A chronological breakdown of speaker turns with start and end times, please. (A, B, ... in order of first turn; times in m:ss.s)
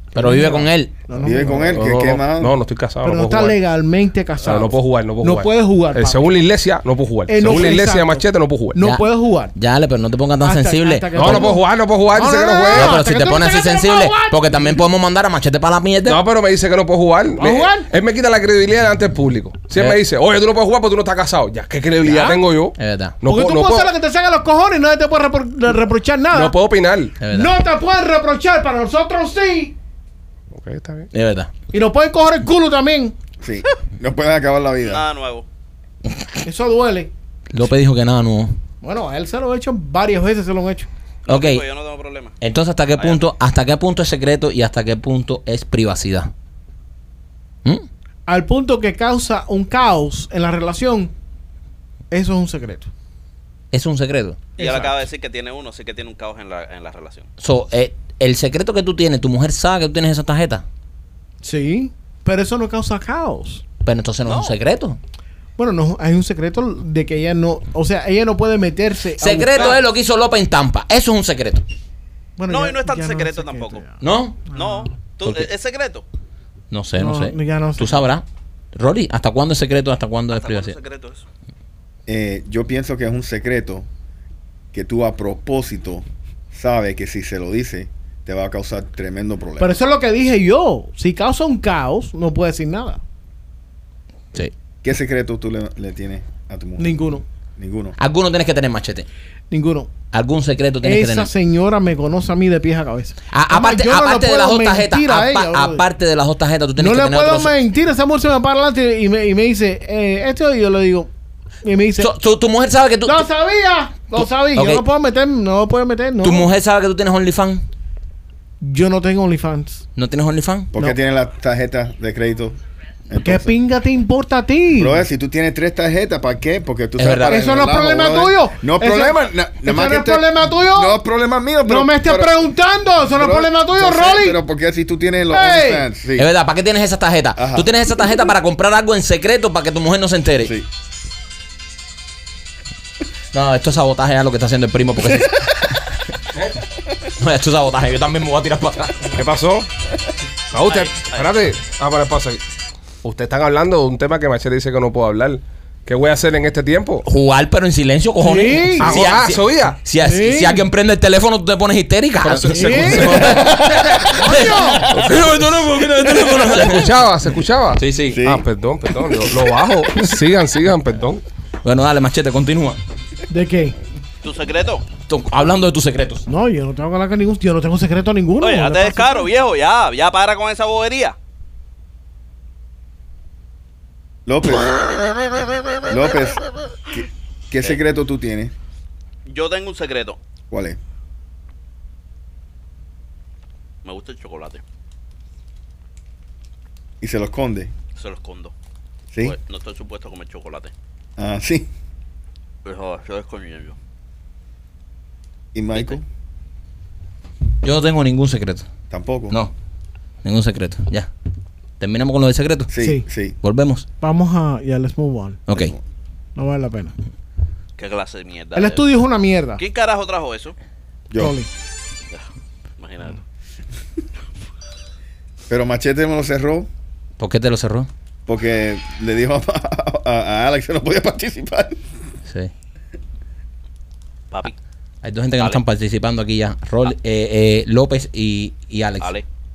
0:00.1-0:00.9 A
0:00.1-0:01.8 B
0:01.2-0:02.6 C
0:01.6-0:03.6 D
0:03.0-0:06.3 B
0:04.4-0:08.8 D
0:07.3-0:09.5 B
0:08.8-0:11.5 A
0:10.4-0:14.8 B
0:11.1-0:13.0 D
0:12.7-0:16.2 A
0:16.0-0:23.9 D
0:17.4-0:17.9 B
0:22.0-0:22.4 B
0:22.8-0:23.2 A
0:23.2-0:26.5 B
0:26.3-0:27.2 D
0:27.2-0:27.5 A
0:27.3-0:29.7 B
0:30.5-0:31.1 D
0:31.1-0:31.5 A
0:31.7-0:33.1 B
0:33.4-0:35.0 C
0:34.8-0:35.4 E
0:36.4-0:37.1 B
0:37.5-0:38.6 A
0:38.8-0:40.9 B
0:41.2-0:42.3 E
0:41.3-0:41.6 A
0:42.4-0:46.3 A
0:48.3-0:51.1 B
0:52.1-0:52.9 B
0:53.7-0:54.5 A
0:54.6-0:57.3 E
0:54.6-0:55.0 B
0:57.4-1:00.6 A
1:01.4-1:03.6 B
1:03.8-1:05.0 A
1:04.2-1:04.5 E
1:05.6-1:09.8 B
1:09.2-1:11.6 A
1:12.4-1:13.9 B
1:12.5-1:13.9 E
1:14.0-1:14.5 A
1:14.5-1:14.9 B
1:14.5-1:16.0 E
1:15.2-1:15.5 A
1:16.7-1:18.2 A
1:17.0-1:18.0 B
1:18.7-1:20.8 A
1:20.3-1:21.2 E
1:22.1-1:23.9 C
1:24.7-1:29.8 C
1:29.6-1:33.0 B
1:34.8-1:37.0 C
1:36.8-1:37.2 B
1:37.6-1:38.0 C
1:38.0-1:39.1 A
1:39.5-1:39.9 B
1:40.1-1:41.3 A
1:40.8-1:45.8 B
1:43.3-1:47.5 A
1:46.8-1:51.1 B
1:51.6-1:52.1 B
1:52.0-1:53.2 A
1:53.0-1:56.5 B
1:54.1-1:54.8 A
1:56.2-1:57.6 A
1:58.6-1:59.8 B
2:00.0-2:00.7 A
2:00.7-2:02.6 C
2:03.1-2:03.5 C
2:03.2-2:05.0 B
2:04.8-2:12.4 C
2:07.0-2:07.4 A
2:07.3-2:11.0 B
2:11.6-2:14.4 B
2:13.1-2:16.3 C
2:15.3-2:15.9 B
2:16.2-2:20.5 A
2:17.4-2:17.7 C
2:23.3-2:25.7 A
2:27.2-2:29.2 A
2:29.1-2:29.7 D
2:30.5-2:32.4 D
2:30.6-2:31.3 E
2:33.0-2:37.0 D
2:37.0-2:47.0 A
2:38.2-2:39.0 B
2:38.8-2:39.8 D
2:40.0-2:40.6 B
2:42.2-2:44.2 D
2:42.5-2:43.4 B
2:43.4-2:43.9 C
2:44.1-2:44.9 B
2:44.9-2:45.4 D
2:46.4-2:51.2 D
2:47.8-2:48.2 A
2:48.1-2:48.4 C
2:51.6-2:52.8 A
2:53.3-2:53.8 B
2:54.2-2:54.8 E
2:55.1-2:56.2 A
2:56.3-2:59.3 B
2:58.4-3:01.1 E
3:04.2-3:04.8 C
3:05.8-3:08.5 C
3:09.2-3:10.2 E
3:10.5-3:10.8 C
3:13.8-3:14.6 E
3:17.0-3:17.7 C
3:18.0-3:18.5 E
3:19.2-3:20.7 E
3:21.2-3:21.7 C
3:22.6-3:23.8 E
3:25.5-3:26.0 C
3:27.6-3:28.6 A
3:28.9-3:29.4 C
3:30.2-3:31.1 A
3:31.8-3:32.7 A
3:32.7-3:33.4 C
3:32.8-3:33.0 B
3:33.4-3:33.8 A
3:34.0-3:35.4 B
3:35.5-3:35.7 A
3:35.5-3:35.8 C
3:36.4-3:36.9 B
3:37.8-3:38.8 E
3:38.5-3:39.6 B
3:39.6-3:40.5 E
3:41.1-3:41.4 C
3:41.2-3:41.5 B
3:42.8-3:43.2 E
3:45.5-3:46.7 C
3:47.2-3:47.9 A
3:48.3-3:51.8 C
3:54.3-3:54.6 E
3:55.0-3:59.1 A
3:59.0-3:59.2 E